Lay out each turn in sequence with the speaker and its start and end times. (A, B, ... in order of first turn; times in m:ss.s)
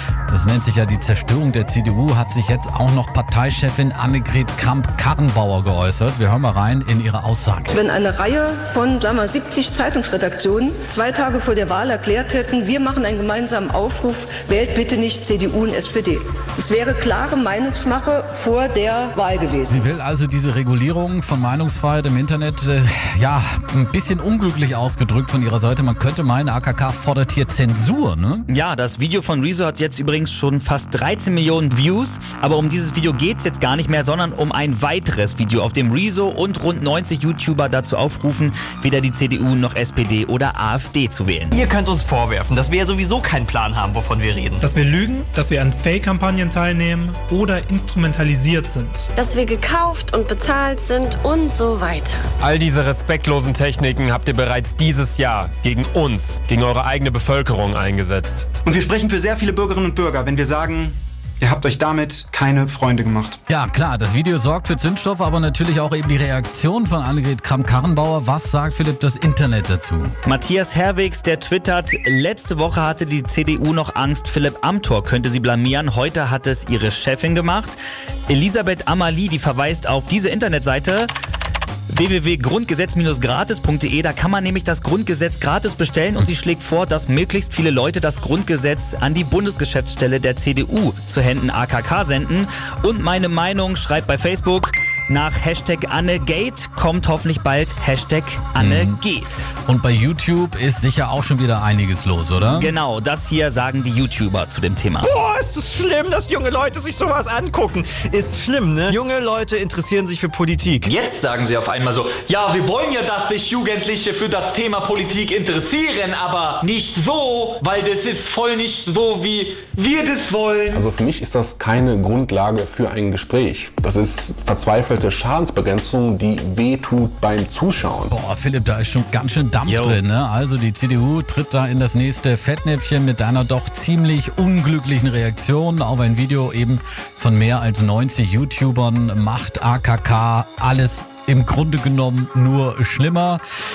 0:00.3-0:07.8 A
0:07.7-0:19.9 B
0:19.7-0:28.4 A
0:28.5-0:41.6 C
0:41.5-0:44.6 D
0:44.6-0:49.1 E
0:49.2-0:52.2 F
0:52.4-0:58.5 G
0:58.6-1:03.4 H
1:03.5-1:10.1 A
1:10.2-1:17.8 C
1:18.3-1:21.1 C
1:21.9-1:39.5 C
1:38.6-1:39.0 A
1:39.6-1:42.7 A
1:42.5-1:45.1 C
1:45.0-1:50.9 D
1:50.9-2:00.8 I
2:00.7-2:08.1 J
2:08.1-2:23.4 A
2:09.6-2:10.0 C